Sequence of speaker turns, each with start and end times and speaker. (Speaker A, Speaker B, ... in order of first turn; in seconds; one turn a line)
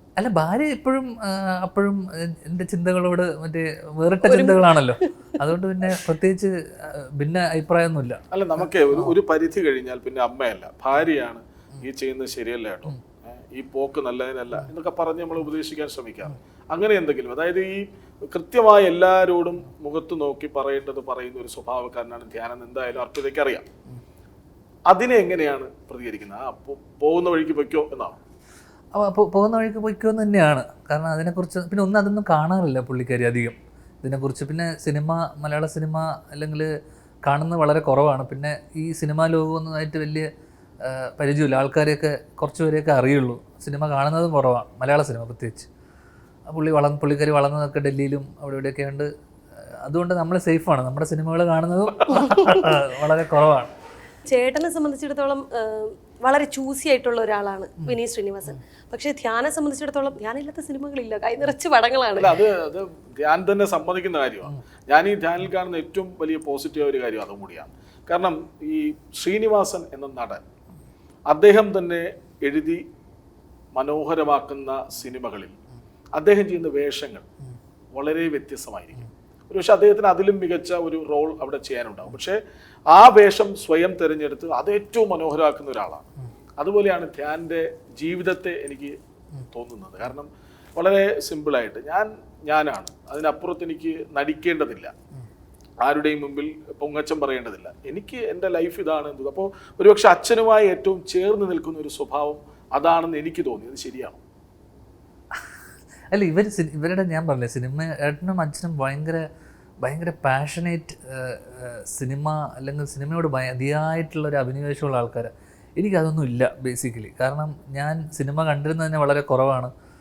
Speaker A: 0.2-8.2
Speaker B: 4.2-5.3
Speaker C: 8.3-23.6
Speaker C: 24.9-28.2
Speaker A: 28.9-36.7
Speaker A: 37.2-40.3
Speaker A: 40.8-45.7
Speaker A: 46.5-53.7
Speaker B: 54.3-62.4
Speaker C: 62.1-70.4
Speaker C: 71.3-72.8
Speaker C: 73.7-75.5
Speaker C: 76.2-77.2
Speaker C: 77.9-82.4
Speaker C: 82.9-86.0
Speaker C: 86.6-89.0
Speaker C: 89.5-94.9
Speaker C: 95.8-104.2
Speaker A: 106.1-109.2
Speaker A: 109.8-119.7